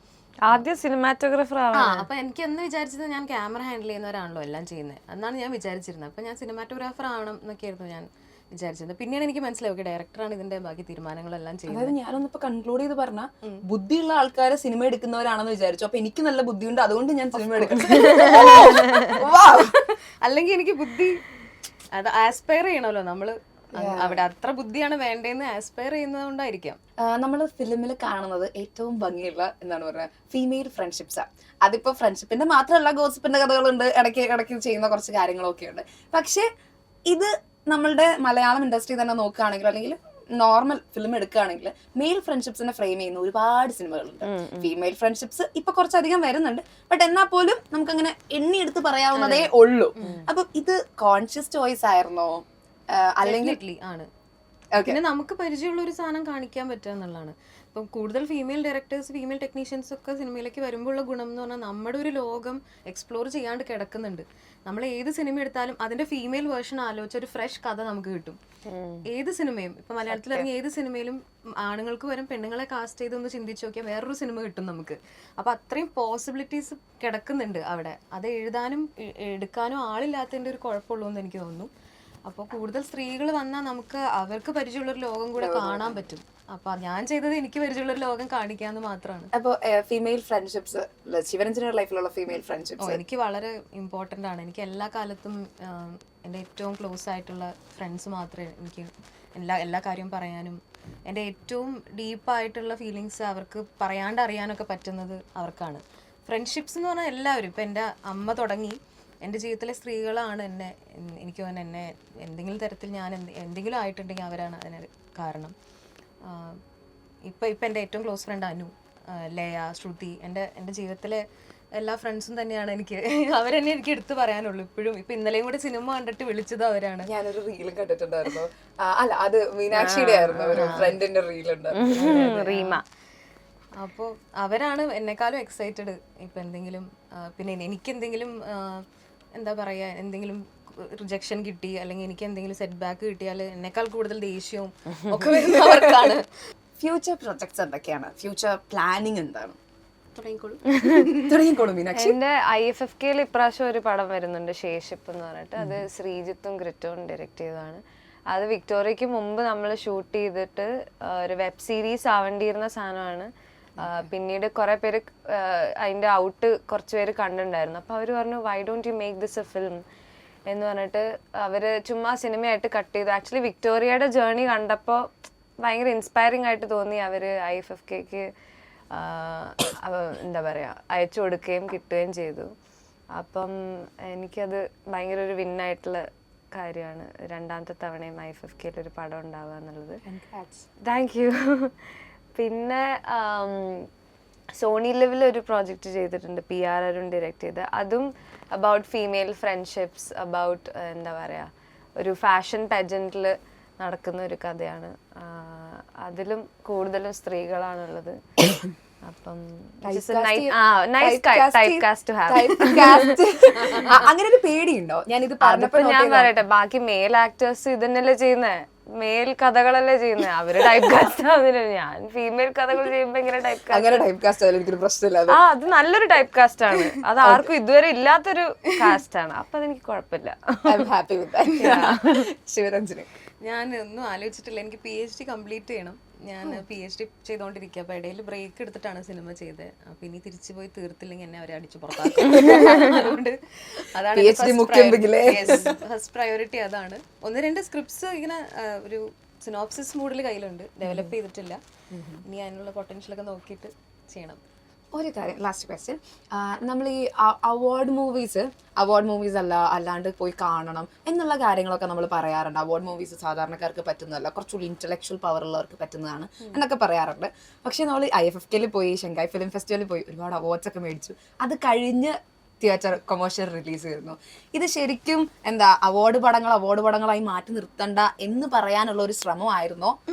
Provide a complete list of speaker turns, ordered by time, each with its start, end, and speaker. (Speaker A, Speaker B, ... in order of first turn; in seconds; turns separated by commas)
Speaker A: 0.4-2.1, Speaker B: 1.7-11.9, Speaker C: 11.7-19.8, Speaker B: 17.3-21.2, Speaker A: 17.9-19.2, Speaker B: 21.9-26.8, Speaker C: 23.7-24.2, Speaker C: 27.0-36.5, Speaker C: 37.1-53.6, Speaker A: 44.2-44.7, Speaker A: 49.1-50.2, Speaker B: 53.2-54.1, Speaker C: 54.7-55.0, Speaker B: 54.9-68.4, Speaker A: 68.7-69.0, Speaker B: 69.1-81.7, Speaker C: 70.1-70.5, Speaker B: 82.3-89.3, Speaker C: 85.4-86.0, Speaker C: 89.3-93.0, Speaker B: 92.8-115.5, Speaker B: 116.2-116.6, Speaker B: 117.3-121.2, Speaker B: 121.8-127.1, Speaker C: 127.1-132.5, Speaker A: 129.7-131.0, Speaker B: 130.5-130.9, Speaker A: 131.7-132.8, Speaker B: 132.5-132.8, Speaker B: 133.8-146.3, Speaker C: 145.5-146.2, Speaker C: 146.8-149.6, Speaker B: 150.2-151.4, Speaker A: 150.7-151.1, Speaker C: 151.2-152.2, Speaker A: 151.9-169.8, Speaker C: 155.6-155.8, Speaker A: 170.5-178.3, Speaker A: 178.9-182.5, Speaker A: 183.1-190.0, Speaker C: 190.1-190.7, Speaker A: 190.8-193.9, Speaker A: 194.5-208.2, Speaker A: 209.0-214.1, Speaker C: 209.8-216.3, Speaker B: 213.6-213.9, Speaker A: 215.4-224.0, Speaker C: 223.7-225.4, Speaker A: 225.3-230.9, Speaker C: 227.2-227.5, Speaker C: 230.7-233.1, Speaker A: 231.6-232.3, Speaker B: 233.4-251.6, Speaker C: 242.0-243.1, Speaker A: 242.3-242.9, Speaker C: 244.2-245.8, Speaker C: 250.8-251.1, Speaker C: 251.9-252.2, Speaker B: 252.3-254.4, Speaker C: 254.9-280.0